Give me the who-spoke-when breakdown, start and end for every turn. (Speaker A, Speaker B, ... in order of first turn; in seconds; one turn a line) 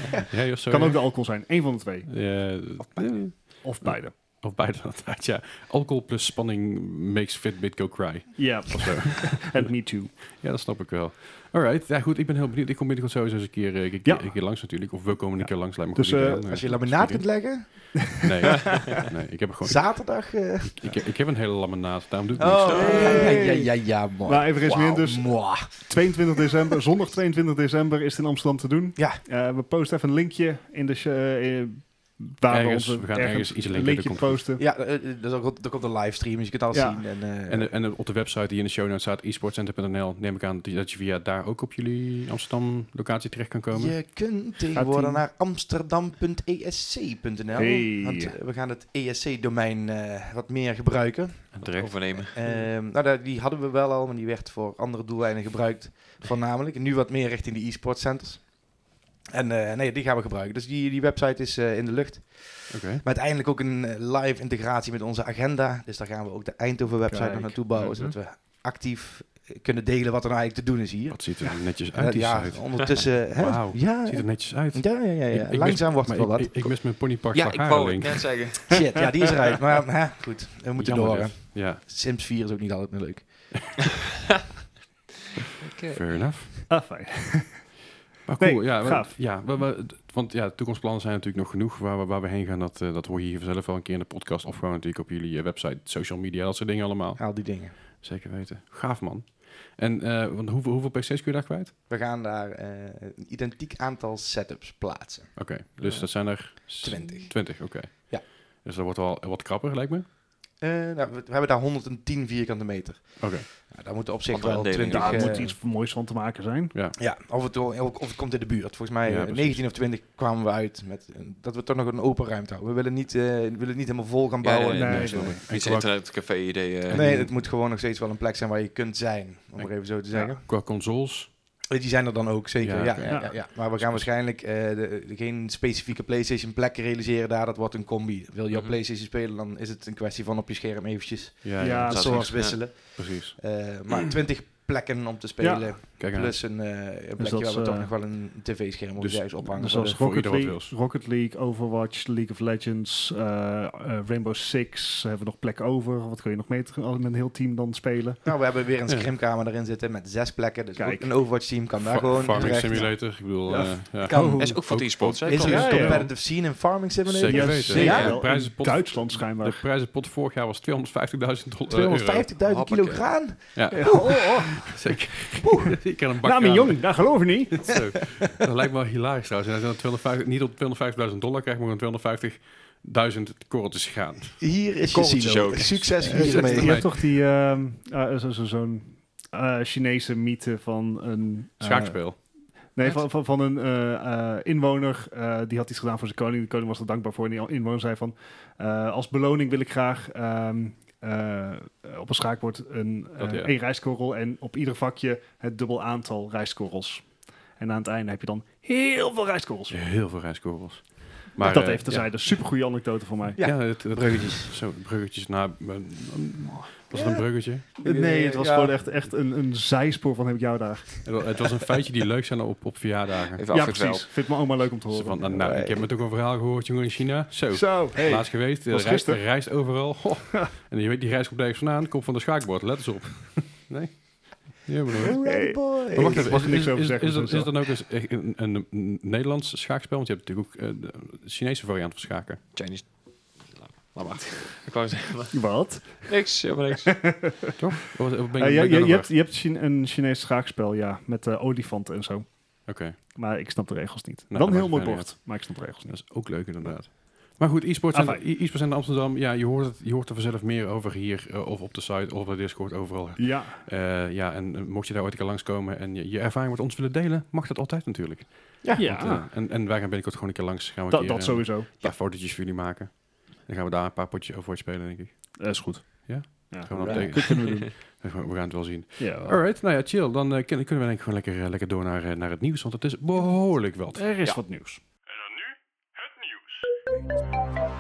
Speaker A: 0.2-1.2
Speaker B: 0.7-4.2
Speaker A: 2.1-23.2
Speaker B: 8.4-10.2
Speaker B: 14.0-16.5
Speaker C: 16.5-18.0
Speaker C: 19.6-20.9
Speaker C: 22.4-26.1
Speaker D: 22.6-23.4
Speaker B: 22.7-34.6
Speaker C: 29.0-29.2
Speaker A: 32.5-34.5
Speaker C: 34.6-37.7
Speaker B: 36.7-37.0
Speaker A: 37.5-44.0
Speaker C: 43.7-76.6
Speaker B: 44.7-45.2
Speaker B: 47.5-48.4
Speaker A: 51.5-52.3
Speaker D: 51.7-52.7
Speaker A: 62.7-63.0
Speaker B: 67.1-67.9
Speaker D: 67.9-68.2
Speaker A: 71.1-78.5
Speaker D: 77.3-79.2
Speaker C: 78.7-83.8
Speaker A: 80.8-81.8
Speaker D: 85.6-86.2
Speaker A: 85.9-86.7
Speaker B: 86.7-87.8
Speaker A: 88.3-101.8
Speaker B: 88.4-89.2
Speaker C: 97.2-97.8
Speaker C: 101.9-105.4
Speaker A: 105.3-110.0
Speaker C: 106.8-108.2
Speaker C: 110.6-115.5
Speaker A: 113.2-113.5
Speaker D: 114.3-115.5
Speaker B: 114.9-116.7
Speaker C: 117.0-125.3
Speaker A: 119.0-119.6
Speaker D: 124.4-127.2
Speaker B: 124.8-125.4
Speaker A: 124.9-126.2
Speaker A: 126.9-127.3
Speaker C: 126.9-130.5
Speaker A: 129.6-131.3
Speaker C: 131.7-150.0
Speaker A: 132.6-134.1
Speaker B: 133.1-133.4
Speaker D: 138.5-138.8
Speaker A: 141.4-143.4
Speaker B: 141.6-142.3
Speaker D: 141.9-142.6
Speaker B: 145.4-145.7
Speaker A: 146.0-146.4
Speaker B: 147.2-147.9
Speaker A: 149.0-150.7
Speaker B: 149.4-158.2
Speaker C: 158.2-163.1
Speaker B: 160.8-161.1
Speaker A: 161.8-166.1
Speaker B: 162.4-164.6
Speaker C: 164.1-168.2
Speaker D: 164.4-166.1
Speaker B: 165.3-166.1
Speaker A: 167.1-172.3
Speaker B: 167.2-169.6
Speaker D: 167.8-168.2
Speaker C: 171.7-174.6
Speaker D: 172.4-173.4
Speaker A: 173.6-184.5
Speaker B: 173.7-174.7
Speaker C: 175.4-175.7
Speaker B: 176.2-177.9
Speaker C: 184.4-186.9
Speaker D: 184.9-186.5
Speaker B: 186.0-209.8
Speaker A: 186.1-186.9
Speaker A: 191.6-192.2
Speaker A: 203.2-203.5
Speaker A: 209.7-212.4
Speaker B: 211.4-213.4
Speaker C: 213.4-214.6
Speaker A: 213.4-217.7
Speaker C: 216.9-218.8
Speaker B: 217.8-221.3
Speaker A: 221.1-223.4
Speaker D: 223.4-224.3
Speaker B: 223.5-225.3
Speaker A: 224.9-242.4
Speaker C: 225.3-225.8
Speaker B: 227.5-229.5
Speaker C: 235.0-236.4
Speaker B: 235.2-237.6
Speaker D: 242.5-247.4
Speaker B: 245.3-246.3
Speaker B: 246.9-247.6
Speaker A: 247.6-249.1
Speaker B: 248.3-252.5
Speaker A: 252.7-253.0
Speaker B: 253.1-256.8
Speaker A: 254.3-284.4
Speaker B: 257.9-258.2
Speaker B: 263.2-263.6
Speaker C: 268.6-269.1
Speaker B: 268.8-269.3
Speaker B: 270.9-271.8
Speaker B: 275.4-278.0
Speaker C: 276.8-277.1
Speaker B: 279.0-279.4
Speaker B: 283.9-284.8
Speaker A: 285.3-285.5